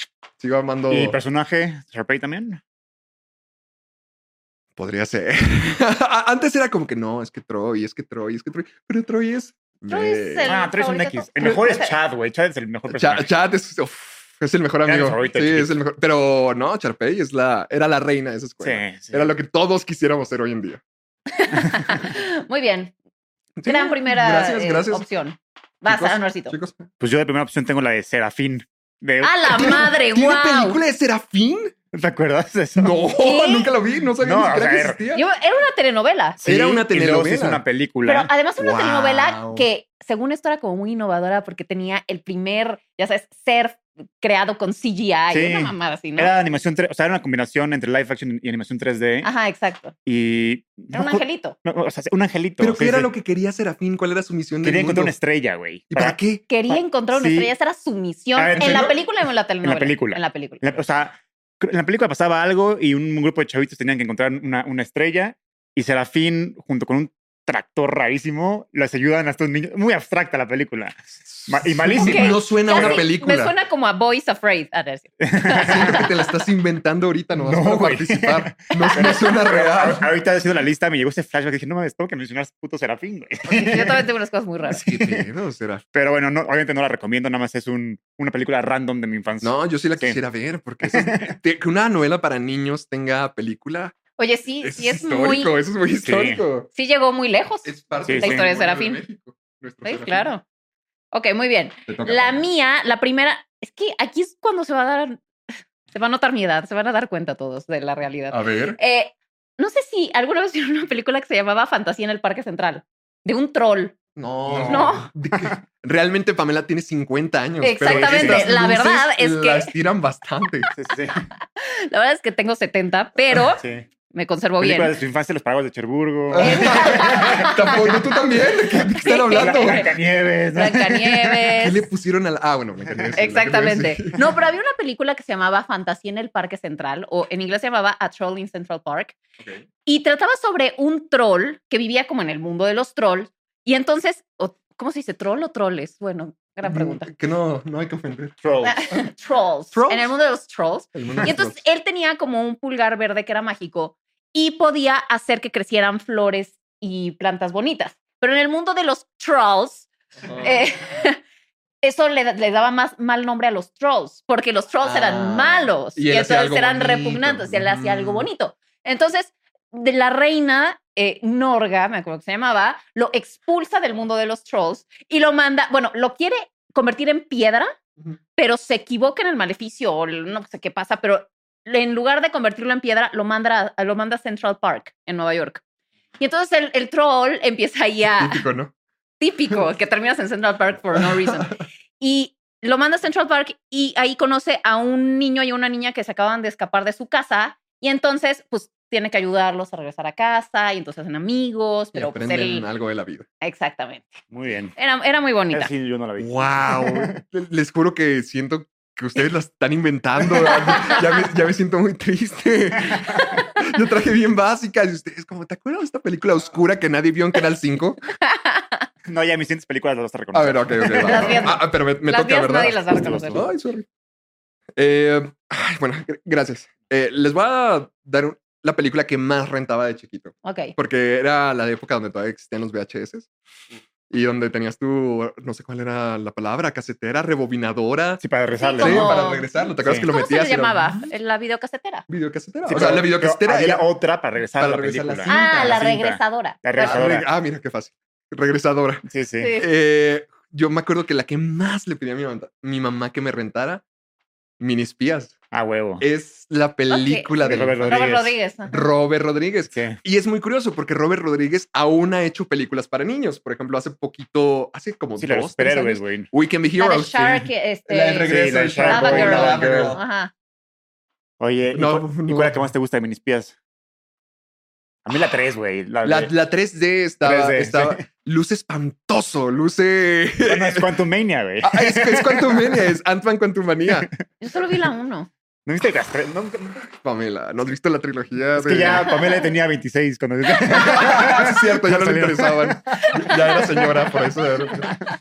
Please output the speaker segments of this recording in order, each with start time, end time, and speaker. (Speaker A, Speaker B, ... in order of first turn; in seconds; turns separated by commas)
Speaker A: 0.4-1.2, Speaker B: 0.9-2.6, Speaker A: 4.8-10.5, Speaker C: 9.9-11.9, Speaker B: 10.4-13.3, Speaker A: 12.9-20.8, Speaker B: 14.8-15.8, Speaker B: 18.6-19.3, Speaker C: 21.3-22.9, Speaker A: 23.6-25.1, Speaker C: 23.6-26.5, Speaker A: 25.9-26.9, Speaker B: 27.0-29.8, Speaker C: 29.2-30.8, Speaker A: 29.5-31.7, Speaker B: 31.9-32.9, Speaker A: 32.8-35.2, Speaker C: 33.2-33.7, Speaker B: 34.2-35.0, Speaker C: 35.1-36.4, Speaker B: 36.4-39.0, Speaker A: 36.4-37.6, Speaker C: 38.0-46.3, Speaker A: 38.7-39.6, Speaker B: 45.3-49.3, Speaker C: 49.2-49.9, Speaker B: 50.0-53.1, Speaker C: 50.9-51.5, Speaker A: 52.6-55.1, Speaker B: 54.6-57.5, Speaker A: 55.9-56.4, Speaker C: 56.5-60.6, Speaker B: 58.4-59.0, Speaker A: 58.6-58.9, Speaker B: 59.6-73.0, Speaker A: 71.3-73.5, Speaker C: 72.0-75.1, Speaker B: 75.2-76.1, Speaker A: 75.5-80.1, Speaker B: 77.3-84.0, Speaker C: 83.5-84.8, Speaker A: 84.7-85.8, Speaker B: 85.9-90.2, Speaker A: 89.4-94.0, Speaker B: 90.8-91.3, Speaker C: 94.2-95.5, Speaker A: 94.6-96.7, Speaker B: 96.0-96.4, Speaker C: 96.7-99.0, Speaker A: 97.6-100.3, Speaker B: 98.0-98.5, Speaker C: 99.8-100.4, Speaker C: 101.1-105.2, Speaker A: 101.9-102.4, Speaker C: 105.9-114.0, Speaker A: 108.3-108.8, Speaker A: 114.2-120.7, Speaker B: 114.5-115.6, Speaker C: 114.6-115.1, Speaker C: 117.6-119.7, Speaker B: 117.8-118.5, Speaker B: 120.7-121.2, Speaker C: 121.5-124.9, Speaker B: 123.6-123.9, Speaker B: 124.6-128.0, Speaker A: 126.3-129.8, Speaker C: 126.4-127.9, Speaker C: 129.0-129.9, Speaker B: 129.3-131.4, Speaker C: 130.5-131.8, Speaker A: 131.6-134.2, Speaker B: 132.9-133.2, Speaker C: 133.2-139.2, Speaker A: 139.4-139.6, Speaker C: 139.8-147.1, Speaker A: 146.6-148.4, Speaker B: 148.4-148.8, Speaker C: 148.6-161.2, Speaker A: 149.7-150.1, Speaker A: 150.9-151.6, Speaker A: 160.2-160.6, Speaker C: 161.8-177.8, Speaker A: 164.8-168.3, Speaker C: 178.4-185.6, Speaker C: 186.2-188.4, Speaker A: 188.2-188.7, Speaker C: 189.2-202.7, Speaker A: 191.0-191.3, Speaker A: 201.9-203.2, Speaker C: 203.4-204.2, Speaker B: 204.3-204.8, Speaker C: 204.8-205.7, Speaker B: 205.5-207.2, Speaker A: 206.2-218.0, Speaker C: 210.7-211.0, Speaker C: 218.2-218.8, Speaker B: 219.1-221.5, Speaker A: 220.3-223.8, Speaker C: 221.0-223.4, Speaker B: 222.9-223.4, Speaker A: 224.8-233.3, Speaker C: 230.4-230.7, Speaker A: 234.1-238.2, Speaker B: 238.2-239.2, Speaker C: 238.6-242.1, Speaker A: 238.8-241.1, Speaker B: 239.8-240.1, Speaker A: 242.1-243.8, Speaker B: 242.6-247.3, Speaker A: 244.6-245.9, Speaker C: 245.3-247.1, Speaker A: 246.8-249.0, Speaker B: 249.1-249.5, Speaker C: 249.4-249.7, Speaker A: 249.6-253.8, Speaker A: 254.6-255.3, Speaker B: 255.5-256.0, Speaker A: 256.0-258.1, Speaker C: 256.9-258.8, Speaker B: 257.4-258.3, Speaker A: 258.7-270.0, Speaker B: 259.7-260.0, Speaker B: 265.2-266.3, Speaker C: 266.8-270.3, Speaker B: 268.2-270.0, Speaker B: 271.4-273.5, Speaker A: 271.7-272.6, Speaker B: 275.0-276.3, Speaker A: 276.0-280.9, Speaker B: 277.2-278.0, Speaker B: 280.4-282.7, Speaker A: 281.6-284.1, Speaker C: 284.4-285.3, Speaker B: 285.6-286.8, Speaker A: 286.9-289.2, Speaker B: 288.6-293.6, Speaker A: 290.7-294.9